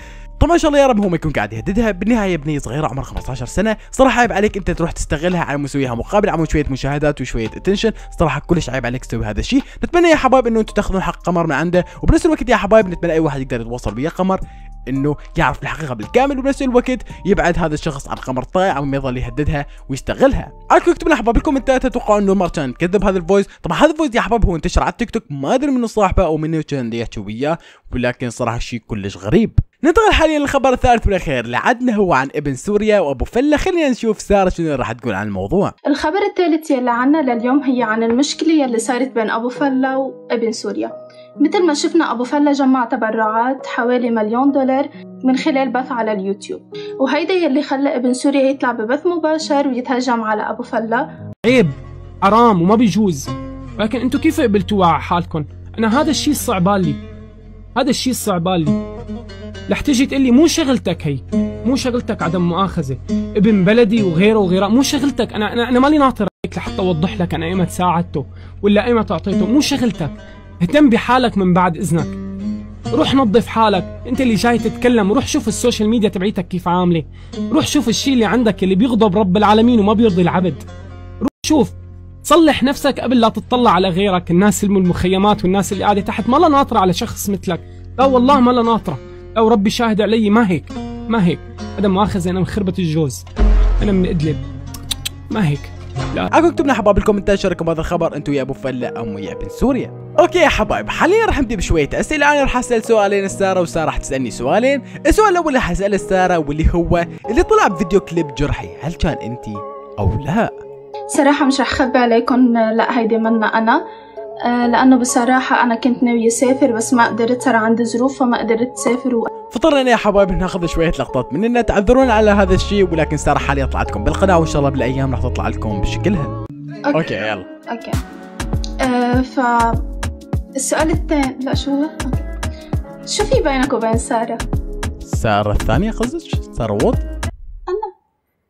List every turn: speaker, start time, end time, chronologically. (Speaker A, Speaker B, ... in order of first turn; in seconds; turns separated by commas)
Speaker A: 0.4-35.7, Speaker B: 35.9-51.1, Speaker C: 51.4-57.0, Speaker C: 57.8-58.8, Speaker C: 59.7-72.2, Speaker C: 72.9-80.6, Speaker C: 81.2-93.2, Speaker C: 93.8-94.4, Speaker C: 95.3-96.3, Speaker A: 96.3-110.5, Speaker B: 111.1-113.8, Speaker B: 114.5-119.3, Speaker A: 119.5-126.3, Speaker B: 126.9-127.1, Speaker A: 126.9-127.5, Speaker B: 127.7-128.0, Speaker B: 128.8-129.8, Speaker B: 130.6-132.3, Speaker B: 133.1-134.4, Speaker A: 135.0-137.0, Speaker B: 137.7-137.9